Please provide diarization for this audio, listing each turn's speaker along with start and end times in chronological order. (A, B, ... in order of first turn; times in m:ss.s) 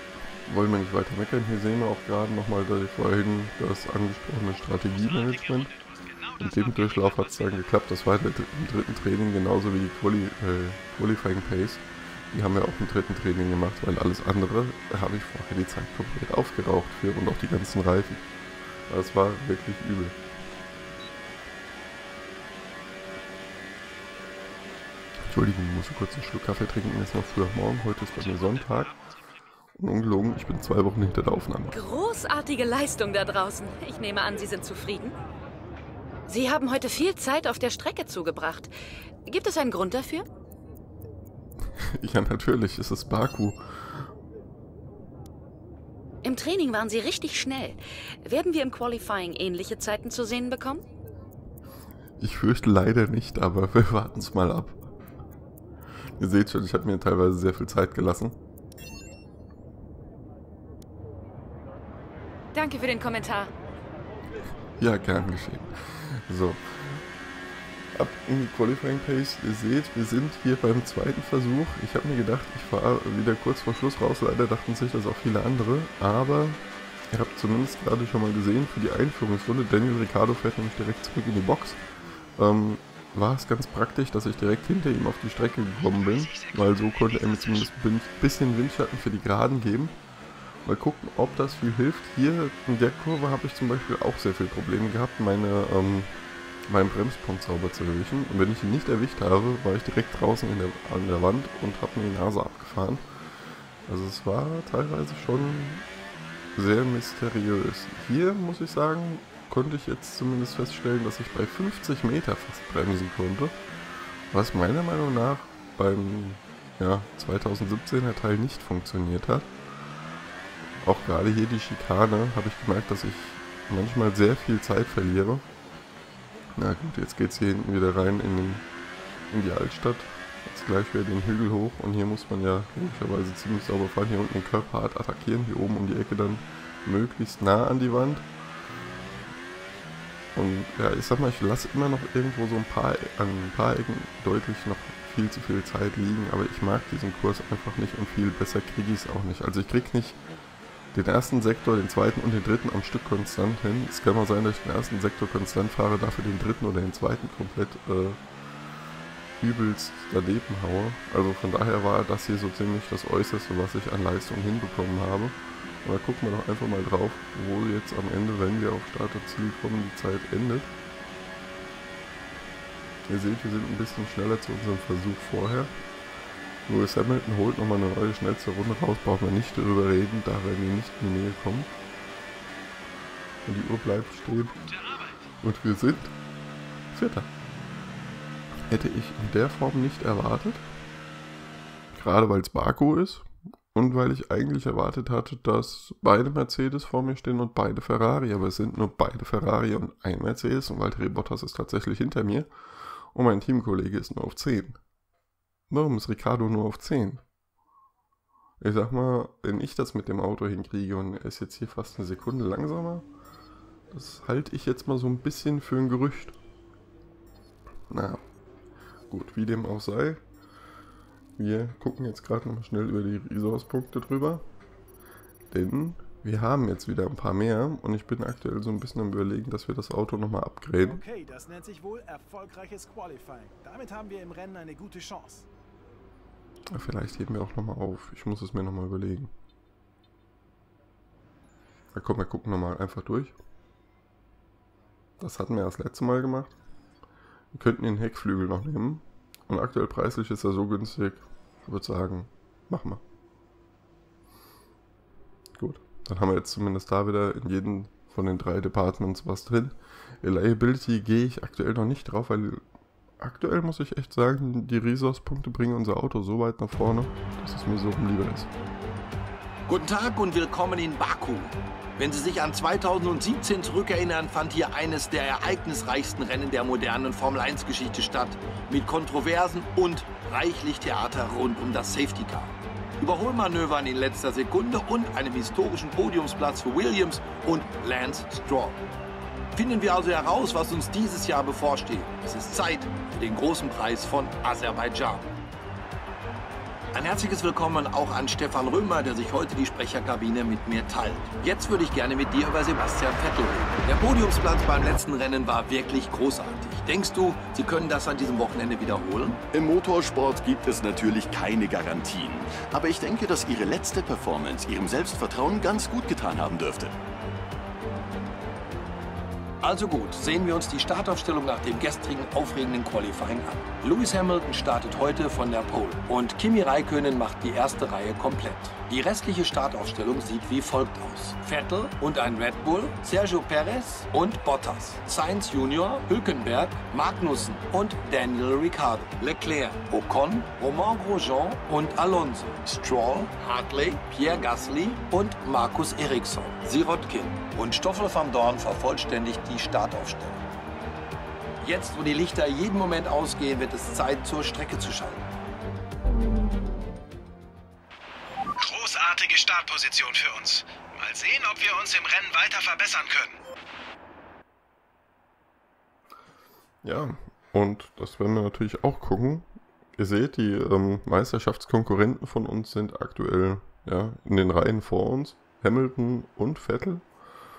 0:00.5-0:05.7 A
0:04.5-0:07.7 B
0:06.4-0:18.2 A
0:18.9-0:20.2 A
0:25.3-0:28.9 A
0:28.1-0:29.5 B
0:29.8-0:31.8 A
0:31.7-0:35.2 C
0:36.3-0:38.7 C
0:39.3-0:40.3 C
0:41.8-0:44.1 A
0:46.2-0:50.8 C
0:52.2-0:54.8 A
0:56.2-0:58.4 A
1:02.5-1:03.5 C
1:04.8-1:07.0 A
1:08.0-1:16.6 A
1:17.1-1:21.8 A
1:22.4-1:30.0 A
1:25.8-1:27.7 B
1:30.6-1:36.1 A
1:36.7-1:43.0 A
1:43.9-1:45.9 A
1:46.6-1:53.6 A
1:54.3-1:59.5 A
2:00.8-2:05.4 A
2:06.6-2:08.6 A
2:09.3-2:18.3 A
2:20.4-2:30.2 A
2:30.9-2:38.2 A
2:39.4-2:50.7 A
2:53.1-2:55.7 A
2:56.7-3:01.7 A
3:03.4-3:04.6 A
3:04.6-3:05.3 B
3:05.4-3:06.1 A
3:06.9-3:07.3 A
3:08.7-3:10.7 A
3:11.9-3:22.5 A
3:23.1-3:24.8 A
3:25.7-3:27.2 A
3:28.6-3:33.1 A
3:33.9-3:36.4 A
3:37.9-3:38.2 A
3:39.1-3:40.2 A
3:41.4-3:44.5 A
3:45.5-3:51.0 A
3:50.8-3:55.5 D
3:56.7-3:59.3 A
4:01.9-4:03.3 A
4:05.2-4:06.5 A
4:07.5-4:13.0 A
4:15.6-4:22.6 A
4:23.2-4:28.5 A
4:29.7-4:48.8 E
4:49.5-4:55.3 E
4:56.9-5:09.4 E
5:09.5-5:17.0 F
5:19.6-5:50.4 E
5:51.6-5:55.3 E
5:58.6-6:03.4 B
6:06.8-6:17.0 A